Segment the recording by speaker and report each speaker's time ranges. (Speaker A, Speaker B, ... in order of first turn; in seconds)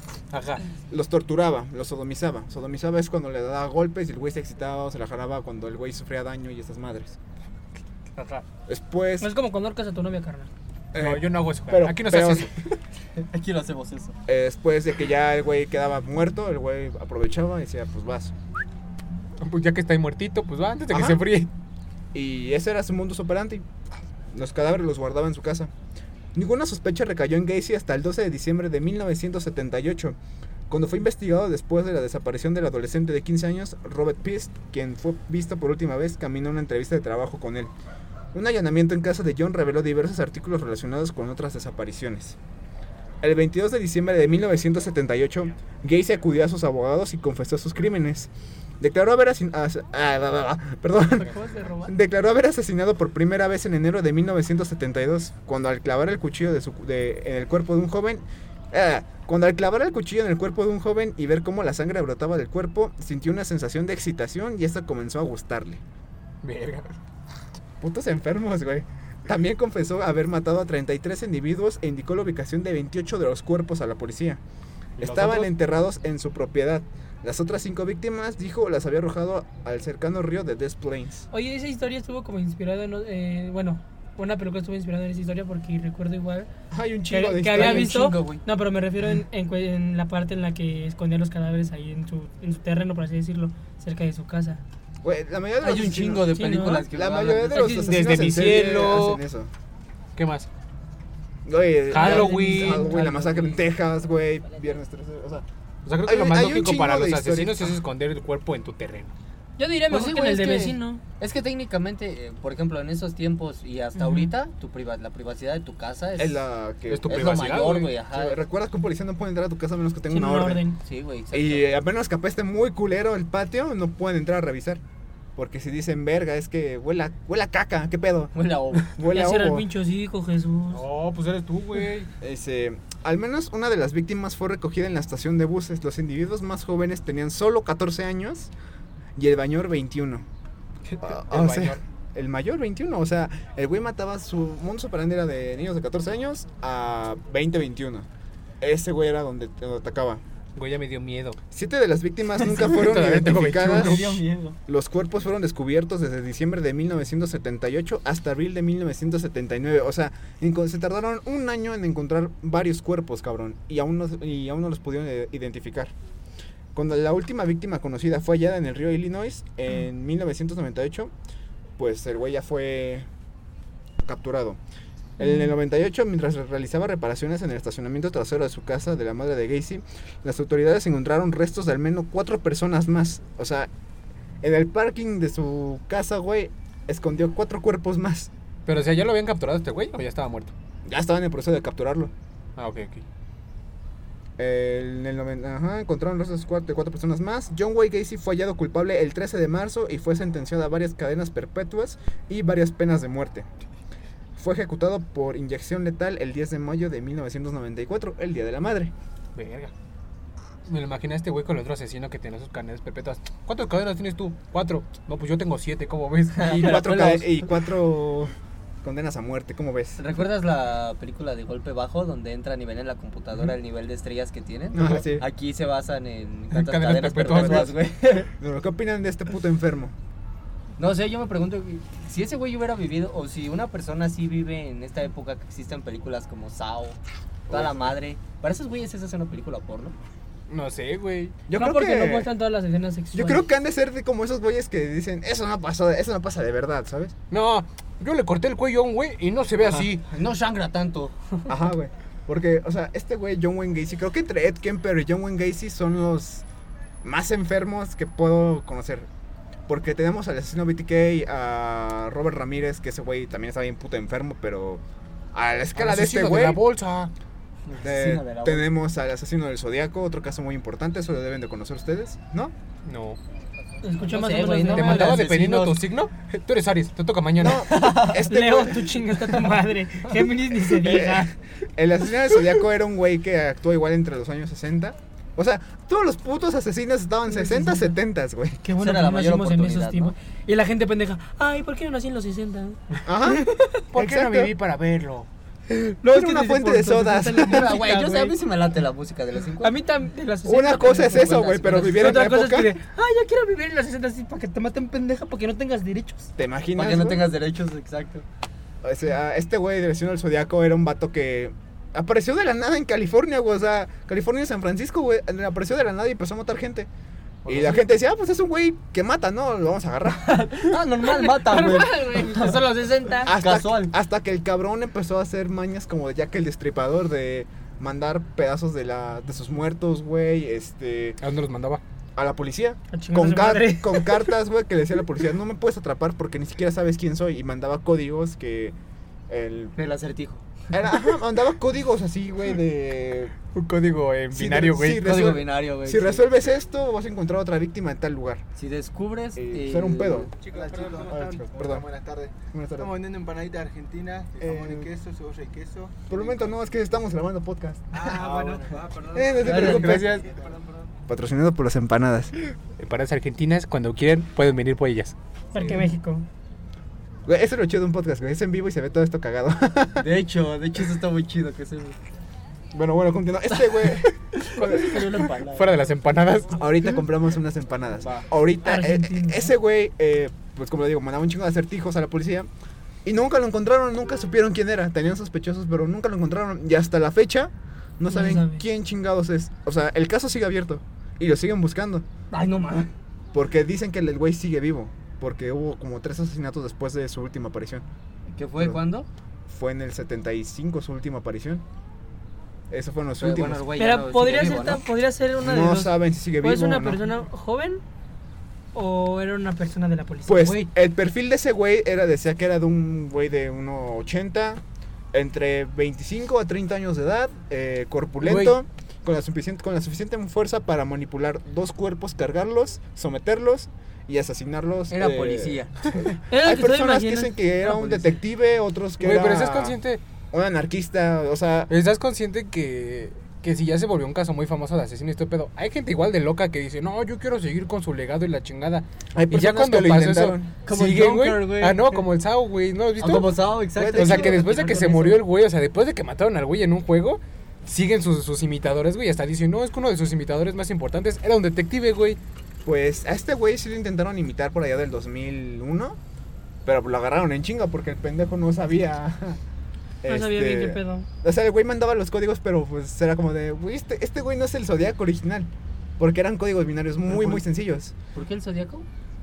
Speaker A: 0.3-0.6, 8.2-8.4, 10.9-12.5, 19.4-21.5, 66.4-66.9, 75.0-75.5, 97.5-99.2, 100.2-100.5, 101.9-103.5, 105.8-109.1, 116.9-117.9, 130.7-132.1, 140.9-141.8, 150.6-151.4, 152.4-154.2, 188.7-190.5, 192.6-193.0, 209.3-209.7, 210.7-217.2, 226.5-227.8, 240.5-241.3, 247.3-250.0, 265.8-267.1, 272.9-273.2, 274.7-277.7, 293.9-295.3, 331.2-331.8, 343.5-345.0, 362.8-365.1, 374.5-377.0, 418.2-418.5, 429.0-430.0, 431.7-443.4, 443.9-452.2
Speaker B: 0.9-7.2, 8.7-9.3, 10.9-12.5, 14.3-18.3, 20.9-21.2, 22.1-23.6, 24.3-25.7, 26.3-30.2, 30.7-37.7, 38.3-42.4, 43.2-51.3, 51.8-65.8, 67.8-74.4, 75.0-81.3, 86.7-87.9, 95.0-99.5, 101.5-105.4, 106.0-107.8, 116.2-117.3, 118.1-120.6, 121.3-124.8, 125.3-129.7, 132.2-138.5, 139.2-140.2, 141.0-148.1, 148.6-150.2, 151.5-154.1, 154.7-165.9, 166.7-171.1, 171.8-173.1, 174.0-174.6, 175.2-183.7, 184.4-188.3, 190.8-192.1, 194.4-203.5, 204.4-208.9, 216.4-220.0, 224.7-225.2, 227.3-227.8, 228.3-229.9, 237.5-237.9, 241.5-242.3, 243.1-247.1, 251.5-256.4, 257.0-259.1, 259.7-264.8, 265.3-266.6, 267.8-272.5, 277.4-278.9, 280.8-288.6, 293.0-294.5, 296.0-297.7, 300.4-302.8, 306.4-307.3, 308.8-316.9, 317.4-320.7, 323.2-331.2, 332.1-338.8, 339.3-339.7, 340.7-343.3, 344.3-348.4, 349.4-350.3, 350.9-351.9, 352.5-353.0, 354.4-354.9, 356.1-358.2, 359.0-360.2, 361.1-362.3, 367.2-370.1, 372.7-374.1, 376.5-382.5, 383.0-392.1, 393.3-397.8, 399.5-401.6, 402.7-403.6, 405.4-407.0, 410.2-414.6, 415.1-429.8, 430.3-431.7, 439.1-440.5, 443.8-444.4, 452.6-456.0, 456.6-459.4, 460.0-467.9
Speaker C: 9.2-10.5, 51.1-51.9, 81.3-86.5, 87.1-94.6, 96.3-96.9, 102.0-103.0, 109.6-111.0, 114.0-114.3, 120.1-120.8, 129.0-130.8, 175.2-175.5, 241.5-243.4, 273.8-275.3, 277.7-281.3, 287.3-287.9, 288.6-293.8, 295.7-298.3, 299.6-306.3, 321.0-323.3, 332.9-334.3, 365.5-366.2, 378.6-379.5, 388.1-388.7, 403.8-407.8, 408.7-410.6, 426.3-427.4, 460.1-461.1
Speaker D: 13.2-14.1, 87.5-88.4, 95.6-98.0, 102.0-103.4, 109.9-116.4, 117.1-118.4, 120.8-121.7, 128.3-128.9, 153.1-154.6, 216.4-217.4, 220.0-228.3, 230.8-237.0, 237.5-239.9, 249.7-251.5, 267.7-268.7, 274.0-275.8, 277.7-278.1, 288.8-290.1, 297.4-299.8, 300.9-302.3, 306.8-308.2, 317.4-317.8, 320.3-323.9, 339.8-340.4, 345.0-346.4, 348.6-351.1, 352.8-356.1, 358.0-360.5, 370.0-371.9, 373.8-375.9, 392.3-392.9, 398.3-399.1, 403.2-404.9, 424.9-425.9, 427.6-428.1, 440.6-442.1, 443.0-445.2, 467.1-467.4, 468.1-468.9
Speaker E: 350.4-352.3, 353.0-355.9, 358.0-359.6